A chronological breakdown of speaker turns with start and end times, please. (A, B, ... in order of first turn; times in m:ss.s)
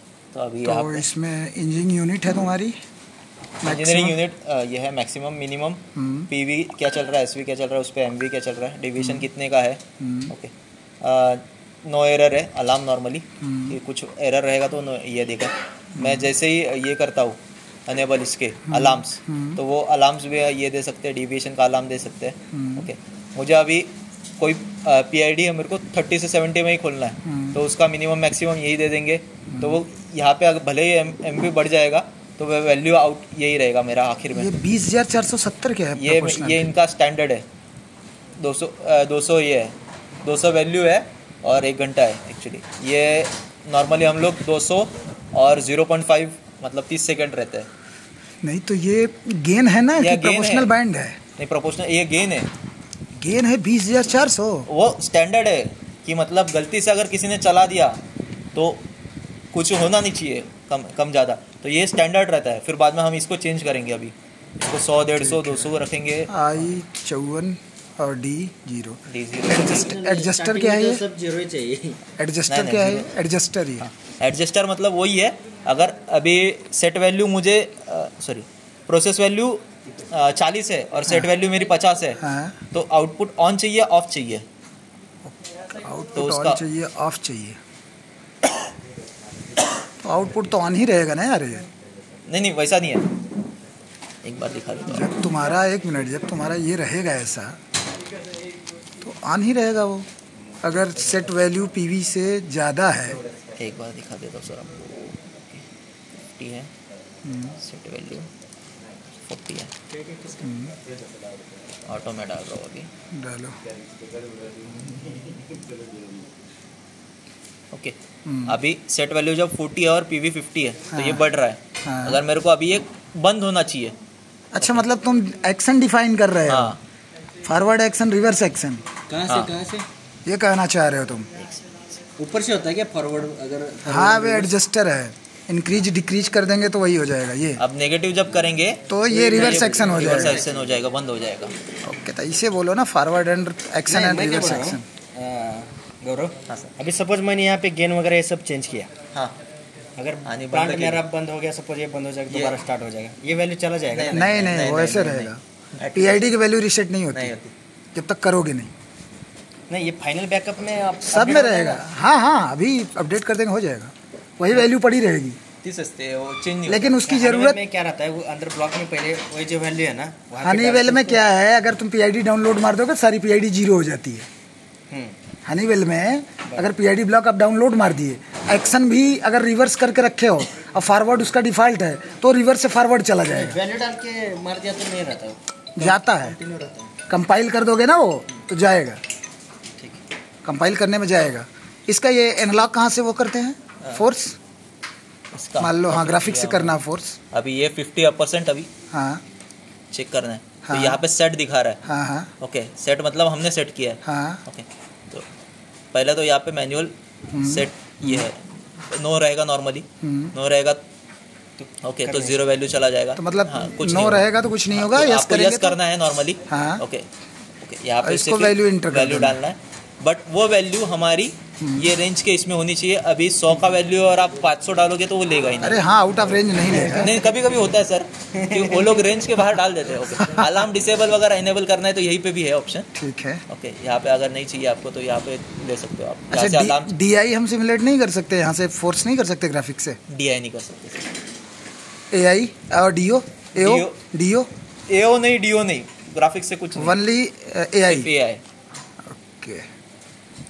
0:00.3-0:01.1 A
0:00.6-0:02.8 B
0:03.6-0:04.2 B
0:03.6-0:34.6 A
0:05.9-0:06.3 B
0:09.0-0:09.3 B
0:10.0-0:10.3 B
0:13.4-0:13.8 B
0:16.0-0:16.3 B
0:18.7-0:19.6 B
0:22.5-0:22.9 B
0:27.2-0:27.6 B
0:29.5-0:29.8 B
0:34.3-0:36.7 B
0:36.0-0:37.4 A
0:38.4-0:47.7 A
0:48.4-0:51.2 B
0:50.0-0:50.7 A
0:51.4-0:52.5 A
0:53.2-0:54.7 B
0:54.7-0:58.0 A
0:58.5-0:58.8 A
0:59.5-1:04.1 A
1:04.7-1:06.3 A
1:05.2-1:05.7 B
1:06.3-1:11.0 B
1:09.0-1:09.9 A
1:09.5-1:12.0 C
1:12.2-1:13.8 B
1:12.5-1:13.1 A
1:13.8-1:24.4 A
1:21.0-1:21.3 B
1:22.2-1:22.6 B
1:25.3-1:27.6 B
1:26.1-1:26.6 A
1:30.0-1:31.7 B
1:32.3-1:33.1 A
1:34.2-1:35.1 A
1:34.9-1:37.6 B
1:39.0-1:40.1 B
1:40.6-1:43.2 B
1:43.6-1:45.6 A
1:46.4-1:46.7 A
1:47.2-1:47.6 B
1:47.6-1:48.3 A
1:49.2-1:49.7 A
1:49.9-1:50.4 C
1:50.4-1:50.8 B
1:51.8-1:52.9 A
1:53.1-1:53.6 B
1:54.6-1:55.2 C
1:55.8-1:56.2 C
1:57.7-2:03.9 A
1:58.2-1:58.6 B
2:00.9-2:01.2 B
2:01.8-2:02.2 B
2:04.5-2:06.8 B
2:04.6-2:04.8 A
2:06.5-2:06.8 A
2:07.4-2:08.8 B
2:09.1-2:09.9 C
2:09.3-2:09.5 A
2:10.2-2:11.3 B
2:11.3-2:11.8 A
2:12.2-2:14.5 C
2:13.8-2:17.6 B
2:17.6-2:21.5 A
2:18.9-2:20.4 B
2:19.1-2:20.5 C
2:21.8-2:24.8 B
2:23.9-2:28.9 C
2:26.5-2:26.7 A
2:30.0-2:34.2 C
2:30.2-2:31.0 A
2:32.3-2:32.6 A
2:33.9-2:36.3 A
2:34.1-2:35.4 B
2:35.9-2:37.3 B
2:37.1-2:37.5 A
2:37.9-2:38.7 B
2:39.7-2:41.8 C
2:41.0-2:45.4 B
2:45.6-2:47.0 A
2:46.7-2:47.6 B
2:47.0-2:51.2 C
2:50.4-2:54.3 B
2:54.9-2:55.2 C
2:55.4-3:03.6 B
3:03.3-3:06.9 C
3:05.8-3:06.4 B
3:07.1-3:09.0 B
3:10.4-3:14.4 B
3:13.8-3:14.0 A
3:15.3-3:16.7 A
3:15.6-3:17.2 B
3:17.3-3:18.7 A
3:18.9-3:19.2 B
3:19.9-3:21.8 A
3:20.6-3:21.0 B
3:21.8-3:22.3 B
3:22.4-3:25.2 A
3:24.0-3:24.4 B
3:25.9-3:30.8 A
3:27.3-3:28.2 B
3:30.0-3:30.3 B
3:31.8-3:37.0 A
3:32.0-3:32.4 C
3:33.2-3:35.8 B
3:36.5-3:36.8 B
3:37.6-3:45.8 A
3:38.0-3:39.4 B
3:41.6-3:41.9 B
3:45.6-3:47.1 B
3:46.8-3:52.9 A
3:48.5-3:49.0 C
3:52.9-3:53.4 B
3:53.5-3:56.9 A
3:56.3-4:00.0 B
4:00.1-4:01.1 A
4:02.1-4:04.5 B
4:03.5-4:04.0 A
4:04.9-4:07.0 A
4:06.8-4:08.1 B
4:07.8-4:08.4 A
4:09.1-4:09.6 B